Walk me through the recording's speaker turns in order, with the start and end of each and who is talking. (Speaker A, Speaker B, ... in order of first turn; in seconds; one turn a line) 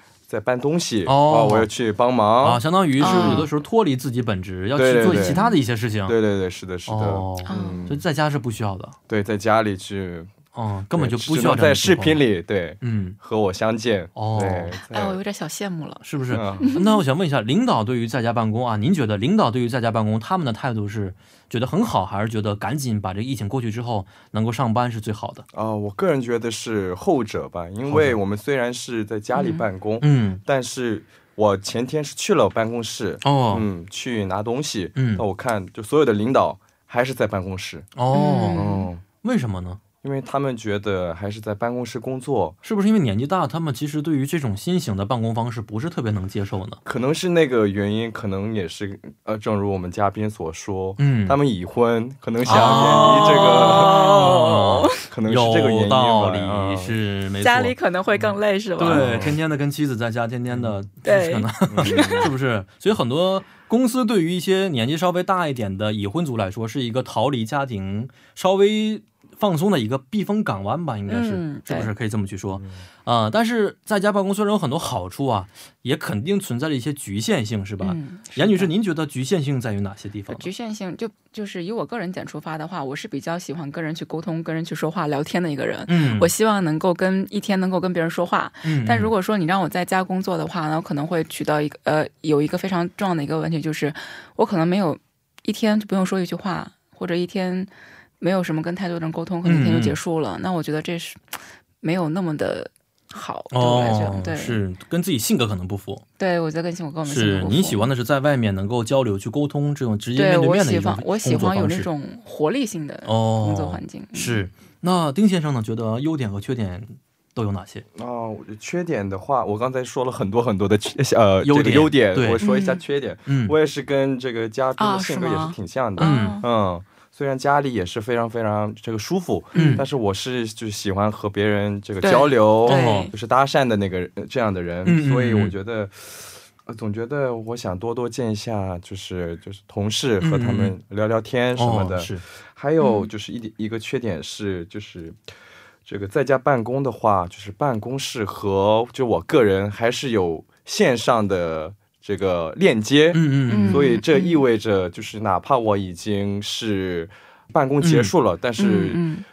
Speaker A: 0.3-3.5
Speaker B: 1.0-1.7
Speaker B: 2.4-6.2
Speaker C: 3.0-3.5
Speaker A: 4.8-5.4
Speaker C: 5.0-5.6
Speaker A: 6.0-8.0
Speaker B: 6.9-8.9
Speaker C: 7.5-7.9
Speaker A: 9.1-10.3
Speaker B: 10.5-12.2
Speaker A: 10.9-15.2
Speaker B: 12.8-13.2
Speaker B: 14.1-14.8
Speaker C: 14.8-16.0
Speaker B: 16.0-25.4
Speaker A: 16.3-16.8
Speaker C: 16.6-17.0
Speaker A: 25.5-37.9
Speaker B: 27.9-28.2
Speaker C: 29.3-29.6
Speaker B: 30.0-30.4
Speaker B: 33.2-33.7
Speaker B: 35.0-35.2
Speaker B: 38.0-39.8
Speaker C: 38.1-38.9
Speaker A: 38.5-39.0
Speaker A: 40.0-42.6
Speaker B: 42.6-46.8
Speaker A: 46.8-56.9
Speaker B: 51.0-51.4
Speaker B: 52.4-57.7
Speaker C: 52.5-55.0
Speaker C: 57.4-59.3
Speaker B: 58.8-80.5
Speaker A: 58.9-59.4
Speaker A: 60.5-60.8
Speaker C: 61.0-62.3
Speaker A: 61.7-62.3
Speaker C: 71.1-71.9
Speaker C: 77.8-78.7
Speaker C: 80.3-104.6
Speaker B: 85.9-86.3
Speaker B: 88.6-89.1
Speaker B: 99.4-100.0
Speaker B: 103.5-106.0
Speaker C: 106.2-107.9
Speaker B: 107.0-111.9
Speaker C: 110.2-114.4
Speaker B: 113.0-117.8
Speaker A: 117.9-145.2
Speaker B: 121.4-122.4
Speaker C: 122.4-122.8
Speaker B: 123.2-123.5
Speaker C: 124.8-126.4
Speaker B: 126.0-126.4
Speaker C: 129.5-129.8
Speaker B: 129.5-129.8
Speaker C: 132.0-133.1
Speaker B: 132.7-133.1
Speaker B: 134.8-135.5
Speaker B: 140.2-140.7
Speaker B: 141.6-142.2
Speaker C: 142.8-143.1
Speaker A: 145.8-159.0
Speaker B: 153.1-153.8
Speaker C: 153.5-154.4
Speaker B: 157.8-158.1
Speaker C: 158.6-159.2